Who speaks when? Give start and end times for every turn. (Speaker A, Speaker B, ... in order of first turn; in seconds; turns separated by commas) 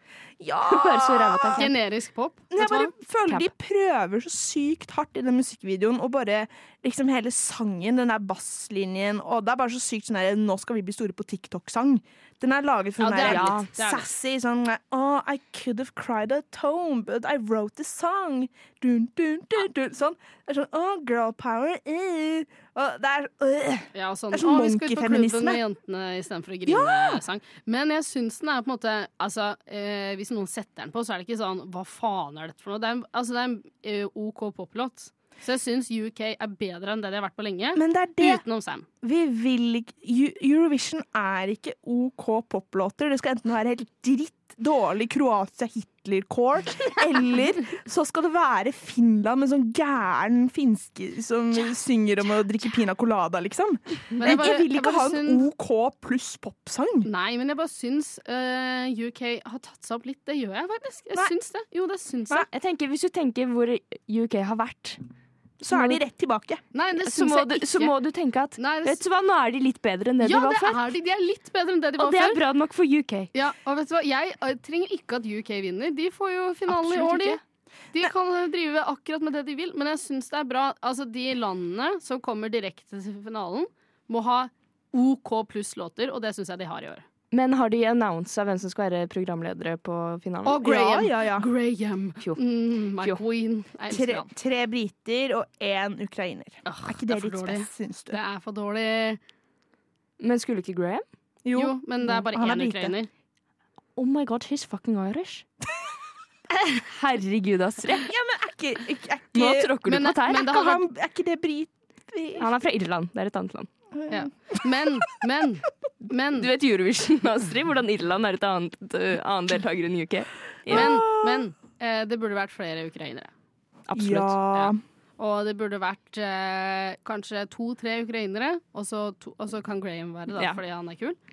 Speaker A: 0.4-1.6, Speaker B: 0.7-1.7, Speaker C: 1.6-2.9, Speaker A: 2.5-25.6, Speaker C: 13.0-14.1, Speaker B: 13.2-13.7, Speaker C: 23.9-38.9, Speaker A: 26.7-27.2, Speaker A: 37.8-38.4, Speaker A: 39.0-57.1, Speaker C: 54.2-55.5, Speaker C: 57.0-62.5, Speaker B: 62.5-65.0, Speaker A: 65.6-66.6, Speaker B: 65.7-66.0, Speaker C: 66.7-68.0, Speaker B: 67.0-70.8, Speaker C: 68.6-69.0, Speaker C: 70.2-72.4, Speaker B: 72.0-73.3, Speaker C: 73.3-77.4, Speaker B: 76.7-77.4, Speaker C: 77.9-87.0, Speaker B: 87.3-90.6, Speaker C: 90.5-94.3, Speaker A: 90.6-91.5, Speaker A: 93.9-98.2, Speaker C: 96.7-99.2, Speaker B: 100.2-101.0, Speaker A: 101.5-103.0, Speaker C: 101.5-103.1, Speaker B: 104.0-105.5, Speaker B: 106.7-108.1, Speaker A: 108.0-109.8, Speaker B: 109.3-110.6, Speaker C: 109.8-110.8, Speaker A: 110.4-112.5, Speaker B: 112.4-113.7, Speaker A: 114.0-114.7, Speaker C: 114.1-116.5, Speaker B: 116.4-120.9, Speaker A: 120.7-121.5, Speaker C: 120.7-123.3, Speaker B: 123.9-124.4, Speaker A: 124.0-124.8, Speaker C: 124.5-131.2, Speaker B: 130.3-130.6